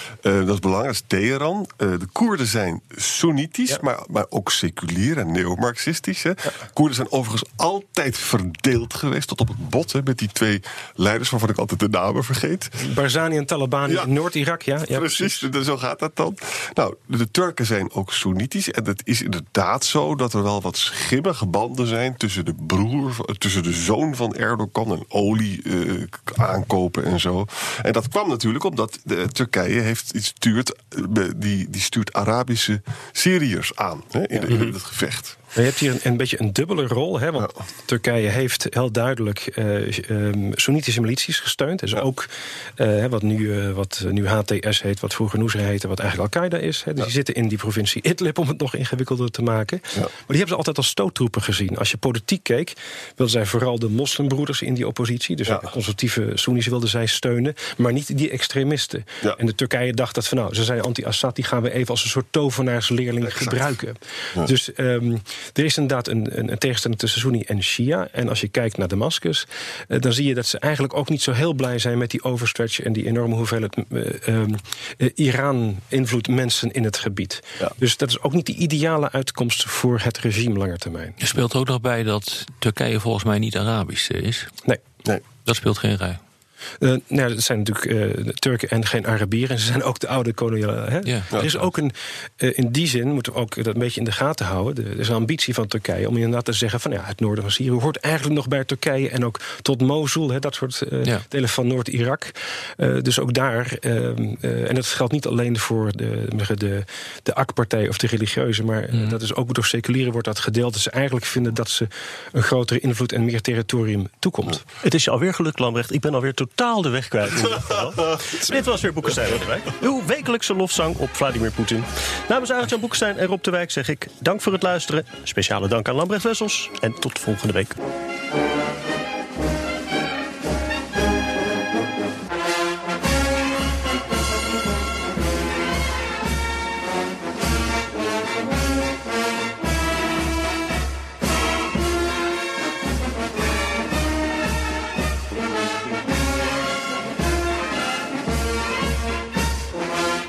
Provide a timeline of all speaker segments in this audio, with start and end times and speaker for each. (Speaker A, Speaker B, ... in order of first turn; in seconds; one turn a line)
Speaker A: 0.2-12.7
Speaker B: 12.8-15.5
Speaker A: 14.9-35.4
Speaker B: 35.5-81.2
Speaker A: 63.2-63.7
Speaker C: 81.2-84.5
Speaker C: 85.4-86.2
Speaker B: 86.8-114.6
Speaker C: 91.0-91.6
Speaker D: 114.8-127.8